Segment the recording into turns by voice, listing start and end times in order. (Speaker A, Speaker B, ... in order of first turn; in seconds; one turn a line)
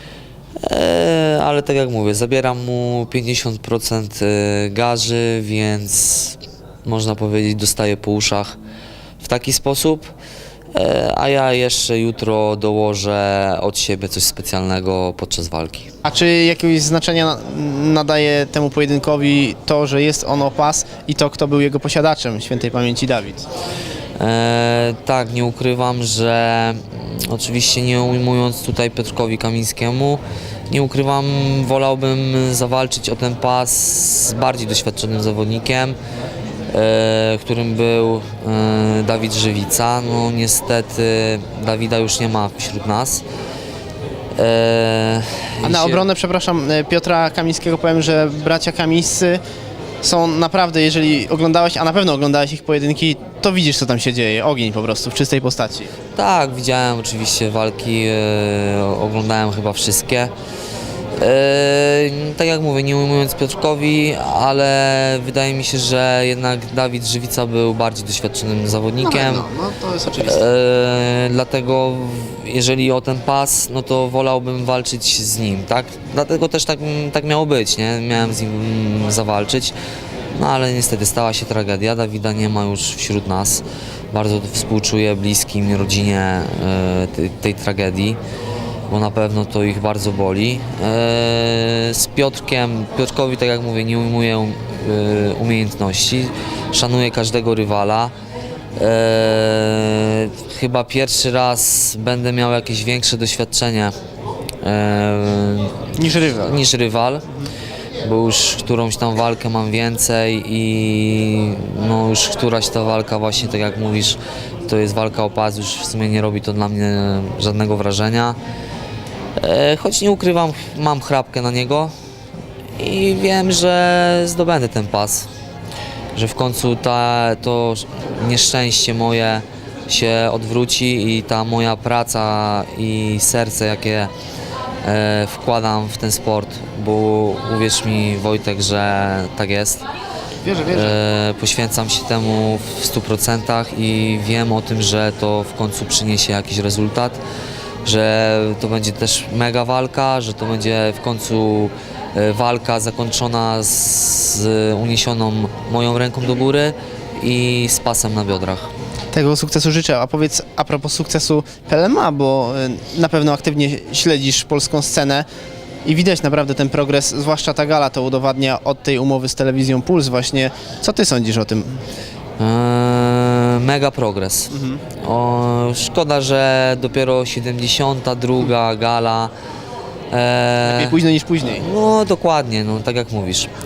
Speaker A: 0.6-8.6
Speaker A: 9.2-10.1
Speaker A: 10.8-15.9
Speaker B: 16.0-23.5
Speaker A: 24.2-36.0
Speaker A: 36.7-43.2
Speaker A: 44.4-46.0
Speaker B: 45.6-49.4
Speaker B: 50.0-55.9
Speaker A: 56.2-60.3
Speaker A: 61.2-69.5
Speaker B: 69.0-70.5
Speaker A: 70.2-79.8
Speaker A: 80.4-88.2
Speaker A: 88.9-98.1
Speaker A: 98.8-103.9
Speaker A: 104.6-107.3
Speaker B: 106.0-106.6
Speaker A: 108.0-118.4
Speaker A: 119.4-121.9
Speaker A: 122.8-125.3
Speaker A: 126.2-134.1
Speaker A: 134.8-139.8
Speaker B: 140.4-141.0
Speaker A: 140.7-147.2
Speaker A: 147.8-158.7
Speaker B: 159.1-165.3
Speaker B: 165.8-171.8
Speaker A: 172.4-179.3
Speaker B: 174.5-174.8
Speaker A: 180.1-183.5
Speaker B: 180.6-181.7